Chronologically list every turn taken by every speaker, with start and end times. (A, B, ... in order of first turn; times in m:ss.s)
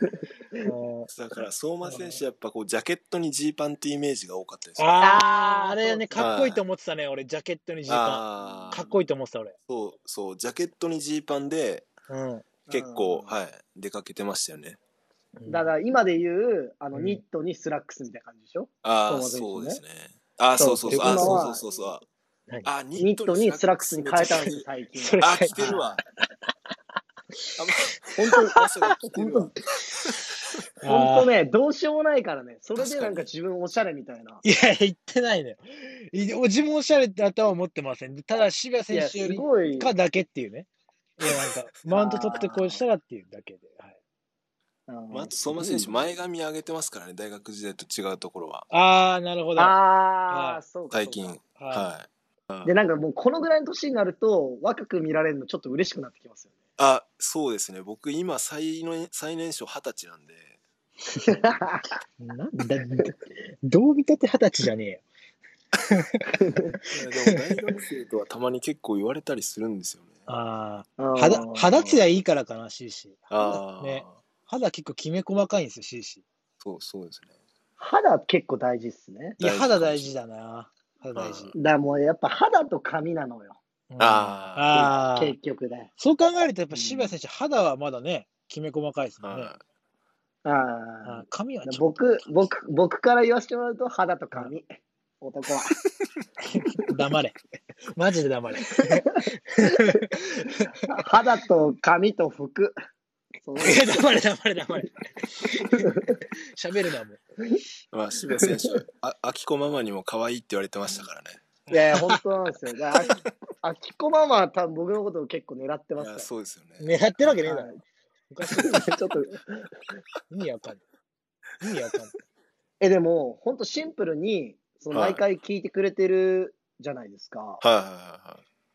0:00.6-0:01.1 A
0:01.1-0:04.9 B
0:04.8-0:09.6 A
0:05.0-0:06.3 C
0:06.2-0:06.6 B
0:07.9-0:08.8 B
0:08.5-0:08.9 C
0:09.7-0:11.9 B
0:12.1-0:12.5 A
0:12.7-0:13.4 C
0:12.7-0:14.8 B
0:15.4-0:15.7 A
0:15.5-0:19.8 C
0:16.9-0:17.2 A
0:18.8-0:22.1 B
0:20.6-0:21.6 C
0:20.9-0:21.5 A
0:22.6-0:24.7 B
0:23.0-0:25.8 C
0:25.0-0:26.0 A
0:25.2-0:26.0 B
0:27.6-0:29.5 B
0:28.2-0:29.5 C
0:30.8-0:31.3 A
0:30.9-0:34.4 C
0:32.8-0:33.3 B
0:34.4-0:44.0 A
0:38.9-0:39.9 C
0:41.9-0:42.8 C
0:44.9-0:45.9 C
0:45.1-0:48.7 B
0:48.7-0:49.8 A
0:49.6-0:51.4 C
0:50.3-0:50.6 A
0:50.9-0:52.7 B
0:51.6-0:51.9 A
0:52.6-0:56.6 C
0:56.8-1:00.6 B
1:01.2-1:01.9 C
1:02.2-1:05.0 A
1:05.9-1:06.4 A
1:06.4-1:06.8 C
1:06.9-1:10.2 B
1:10.3-1:16.2 A
1:11.0-1:11.8 C
1:13.3-1:14.1 B
1:16.6-1:17.3 B
1:17.8-1:19.4 C
1:19.4-1:20.1 B
1:19.4-1:21.5 A
1:21.2-1:21.5 B
1:21.6-1:23.6 C
1:23.9-1:25.4 A
1:24.0-1:24.9 B
1:24.7-1:25.9 C
1:26.0-1:29.5 A
1:26.7-1:27.1 C
1:29.2-1:29.6 B
1:30.4-1:34.6 C
1:31.0-1:31.9 A
1:35.2-1:35.8 C
1:36.4-1:37.4 A
1:38.0-1:40.9 A
1:40.9-1:42.8 C
1:43.4-1:44.1 C
1:43.6-1:47.2 A
1:45.8-1:46.1 C
1:47.9-1:51.4 B
1:48.4-1:48.7 C
1:51.7-1:52.2 A
1:51.7-1:56.3 C
1:56.0-1:57.4 B
1:56.8-1:58.9 A
1:57.5-1:57.8 C
1:58.7-1:59.7 C
2:00.3-2:00.8 A
2:01.6-2:02.1 A
2:02.8-2:07.6 C
2:04.9-2:05.2 B
2:07.6-2:08.4 B